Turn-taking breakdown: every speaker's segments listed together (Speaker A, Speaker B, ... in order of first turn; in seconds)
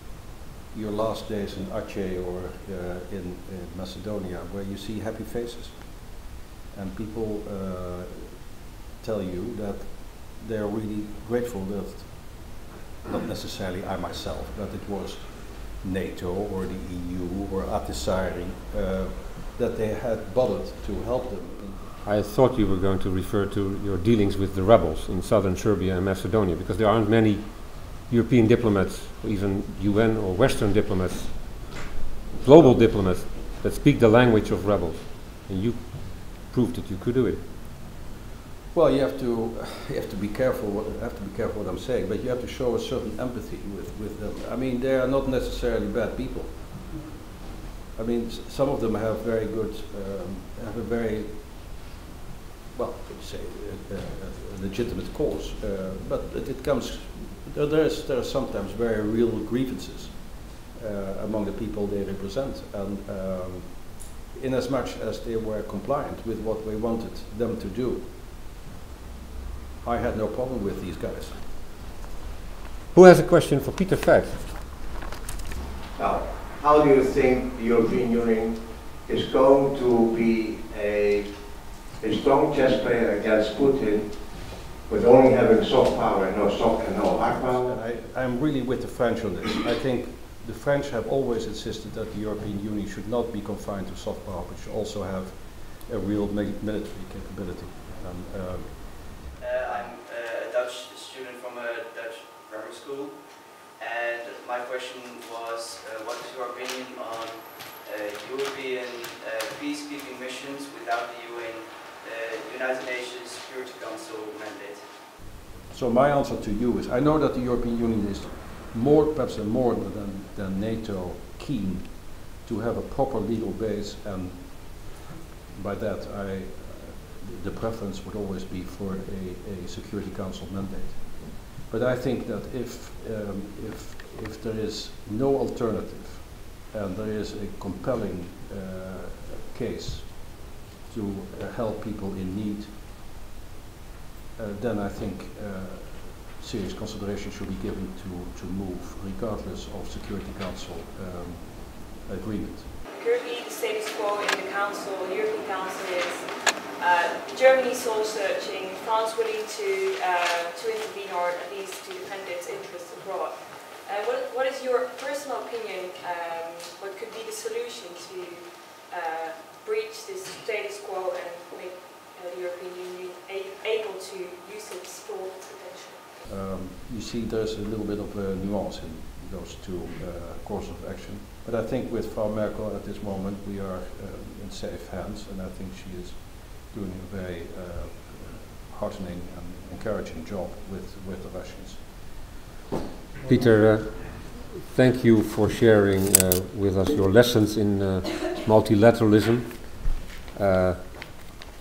Speaker A: 0.7-21.9, 38.7-47.1, 47.9-51.9, 52.7-68.1, 69.8-71.4, 87.5-99.0, 115.7-142.8, 144.3-152.7, 176.2-192.3
Speaker B: 22.0-37.4, 72.9-74.5, 193.2-201.4
Speaker C: 76.0-87.7
Speaker D: 99.4-115.0
Speaker E: 152.9-176.2